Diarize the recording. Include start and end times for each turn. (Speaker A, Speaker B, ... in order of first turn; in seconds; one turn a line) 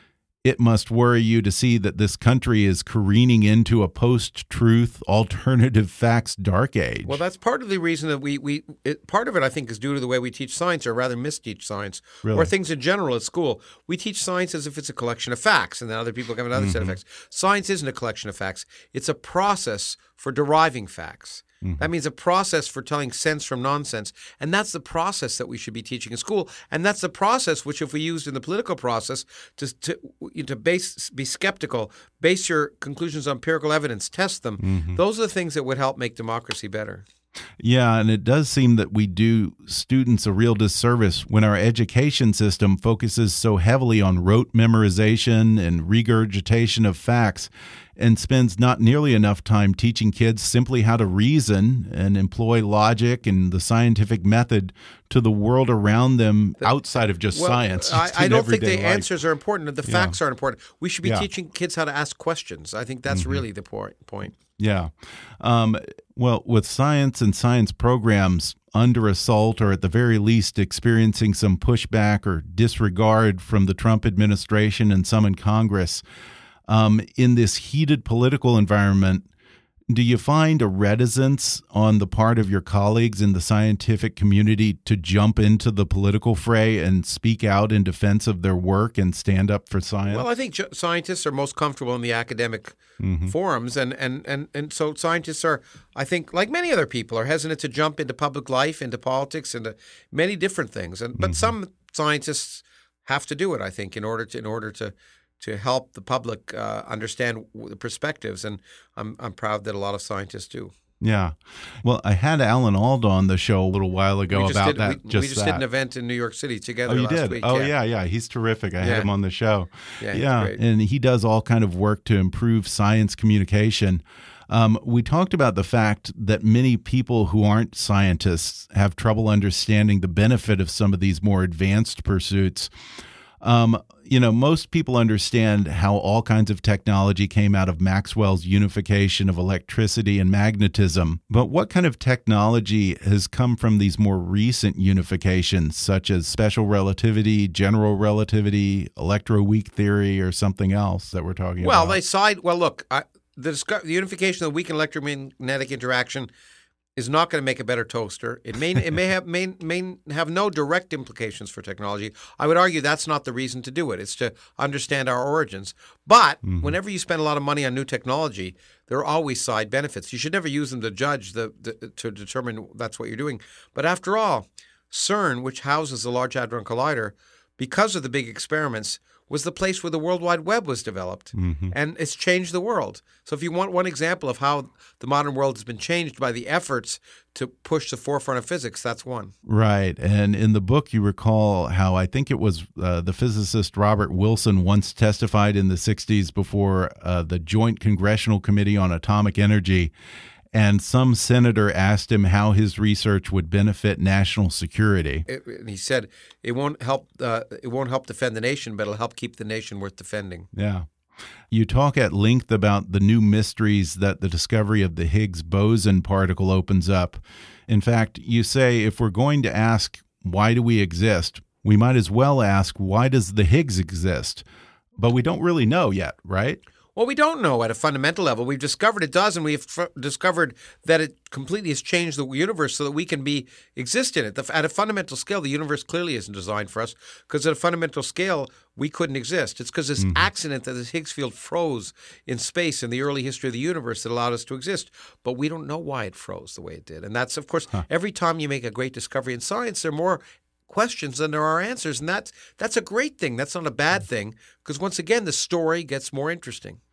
Speaker A: 0.4-7.2
Speaker B: 7.1-37.1
Speaker A: 12.2-12.5
Speaker A: 16.6-17.0
Speaker A: 21.6-21.9
Speaker A: 34.6-35.0
Speaker A: 37.6-59.1
Speaker B: 57.3-64.3
Speaker A: 59.9-60.2
Speaker A: 63.1-63.4
Speaker A: 64.6-76.0
Speaker A: 76.7-79.3
Speaker A: 79.9-90.3
Speaker B: 90.1-110.7
Speaker A: 93.0-93.3
Speaker A: 101.2-101.5
Speaker A: 111.0-115.6
Speaker B: 114.3-117.7
Speaker A: 116.9-132.7
Speaker B: 118.8-119.1
Speaker B: 120.0-120.6
Speaker A: 133.4-152.0
Speaker B: 151.6-156.3
Speaker B: 157.0-189.3
Speaker A: 166.4-166.8
Speaker A: 181.3-181.7
Speaker A: 189.4-199.9
Speaker A: 200.5-205.2
Speaker B: 205.3-210.5
Speaker A: 210.5-210.9
Speaker A: 211.5-224.4
Speaker A: 225.0-226.6
Speaker B: 227.0-256.8
Speaker A: 240.0-240.3